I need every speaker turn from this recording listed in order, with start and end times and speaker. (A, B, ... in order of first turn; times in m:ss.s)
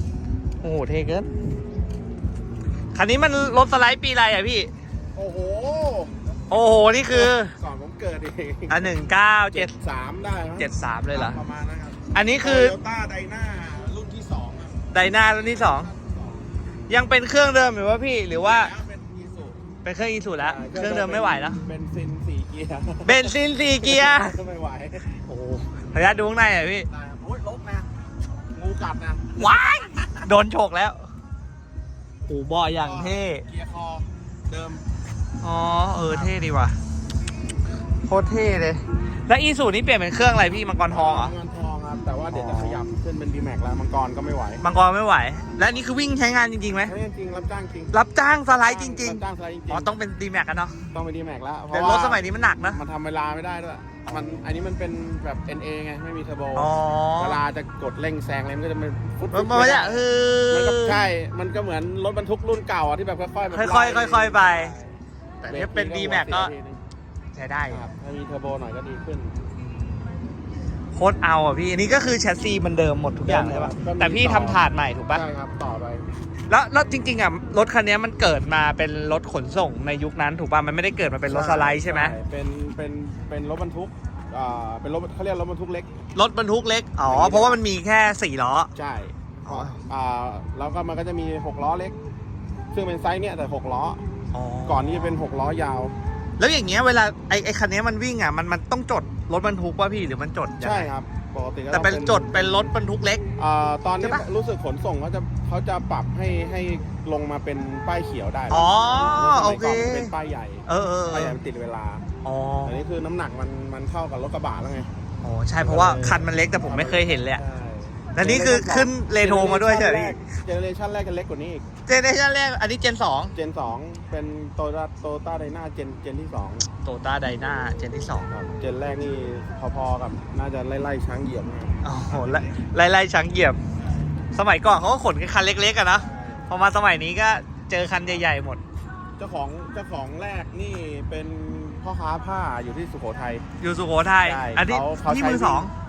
0:00.6-0:01.3 A
0:02.9-0:04.7 A
0:05.1-0:06.2 B
0:06.5-0:07.5 A
0:07.1-0:09.0 B
0:08.7-0:09.7 A
0:09.5-0:14.8 B
0:10.6-0:11.4 A
0:12.1-0:12.7 A
0:14.9-0:15.9 A
0:15.4-0:16.4 B
0:16.9-0:18.7 A
0:18.4-0:19.6 B
0:19.8-0:21.6 A
0:20.4-0:25.1 B
0:23.0-0:24.4 A
0:25.3-0:26.9 A
0:26.9-0:27.9 B
0:28.5-0:29.5 B
0:29.4-0:31.1 A
0:32.3-0:33.4 A
0:32.8-0:34.8 B
0:35.4-0:36.8 A
0:38.0-0:41.3 A
0:40.4-0:44.6 B
0:42.3-0:42.8 A
0:44.6-0:46.9 A
0:46.8-0:47.9 B
0:47.9-0:50.8 A
0:48.5-0:49.9 B
0:50.9-1:06.8 B
0:51.7-0:52.8 A
0:56.5-0:57.4 A
0:59.3-1:01.0 A
1:03.5-1:04.7 A
1:05.4-1:06.5 A
1:07.3-1:07.9 A
1:07.7-1:09.3 B
1:10.9-1:15.2 A
1:13.2-1:16.0 B
1:16.5-1:22.1 A
1:21.2-1:25.9 B
1:26.1-1:28.7 A
1:27.0-1:27.6 B
1:28.7-1:31.9 B
1:29.4-1:29.8 A
1:32.7-1:34.0 B
1:34.3-1:35.2 A
1:34.6-1:35.9 B
1:36.4-1:40.9 A
1:40.6-1:42.7 B
1:41.7-1:43.2 A
1:43.4-1:52.0 B
1:48.5-1:50.1 A
1:50.7-1:51.4 A
1:52.2-1:52.8 A
1:52.6-1:55.0 B
1:55.2-1:57.4 A
1:55.6-2:01.7 B
1:58.1-2:00.2 A
2:01.8-2:03.3 A
2:03.3-2:06.6 B
2:06.8-2:08.3 A
2:08.3-2:12.5 B
2:11.8-2:13.6 A
2:14.3-2:18.6 A
2:15.9-2:16.5 B
2:19.2-2:23.4 B
2:23.6-2:25.7 A
2:24.2-2:25.7 B